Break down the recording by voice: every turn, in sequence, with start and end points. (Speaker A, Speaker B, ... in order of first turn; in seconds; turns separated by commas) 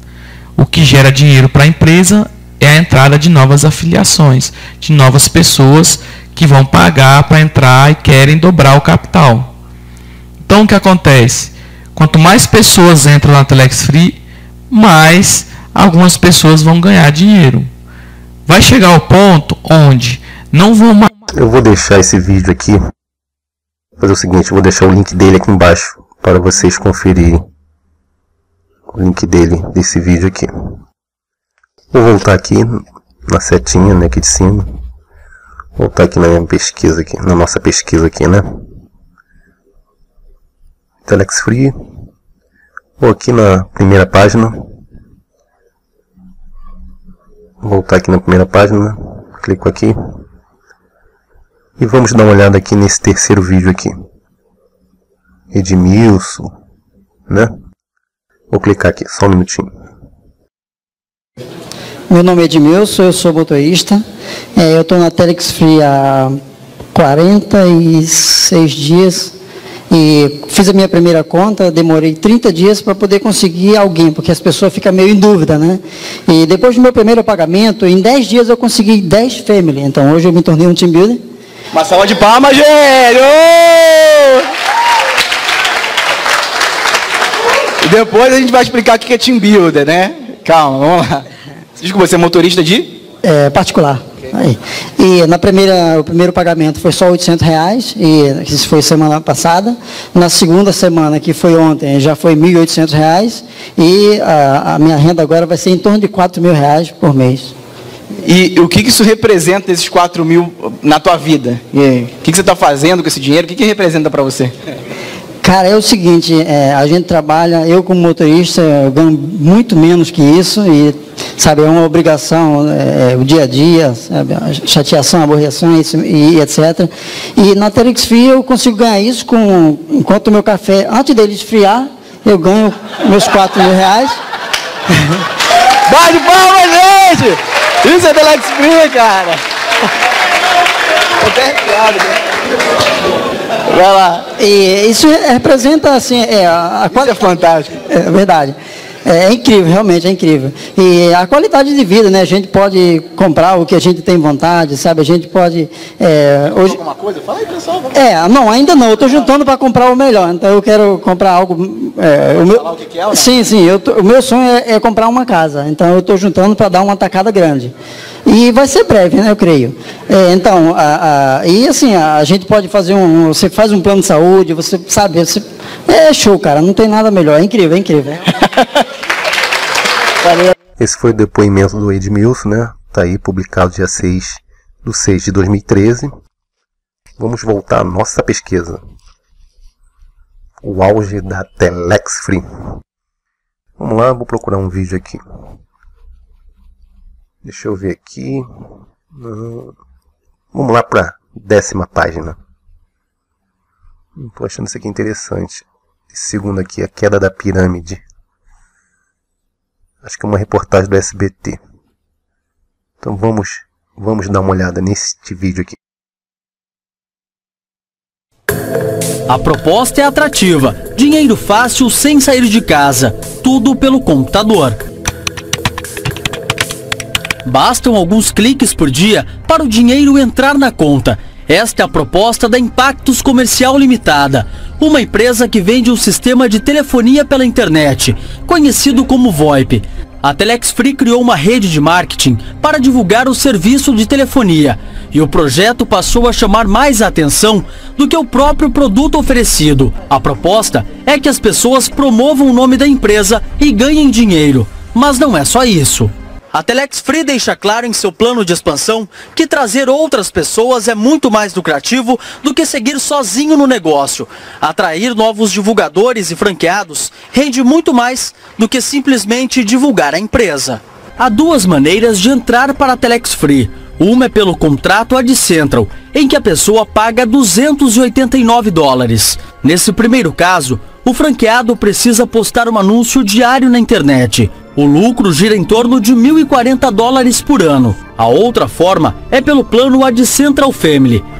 Speaker A: 0.5-9.6, Speaker A: 10.4-17.7, Speaker A: 18.4-21.1, Speaker B: 21.3-22.8, Speaker B: 24.0-27.4, Speaker B: 28.9-30.5, Speaker B: 31.9-34.8, Speaker B: 35.8-38.5, Speaker B: 41.0-41.7, Speaker B: 43.0-44.6, Speaker B: 47.6-50.0, Speaker B: 51.8-53.9, Speaker B: 55.5-56.5, Speaker B: 58.5-59.7, Speaker C: 62.1-64.0, Speaker C: 64.5-66.4, Speaker C: 66.9-69.3, Speaker C: 69.9-81.2, Speaker D: 81.7-84.2, Speaker D: 87.8-91.2, Speaker D: 91.8-92.9, Speaker C: 93.2-107.5, Speaker D: 108.2-114.5, Speaker C: 115.4-134.2, Speaker D: 135.9-139.4, Speaker D: 141.2-142.1, Speaker D: 143.7-144.2, Speaker C: 144.3-156.8, Speaker D: 146.9-147.7, Speaker C: 157.9-167.7, Speaker C: 168.2-178.3, Speaker B: 180.8-186.1, Speaker B: 187.2-188.8, Speaker B: 190.6-192.4, Speaker B: 193.8-195.2, Speaker B: 197.4-198.4, Speaker B: 199.1-199.7, Speaker B: 200.5-202.4, Speaker B: 204.2-208.0, Speaker B: 210.0-211.6, Speaker B: 213.0-215.8, Speaker E: 219.3-224.7, Speaker E: 227.5-256.0, Speaker E: 256.5-291.1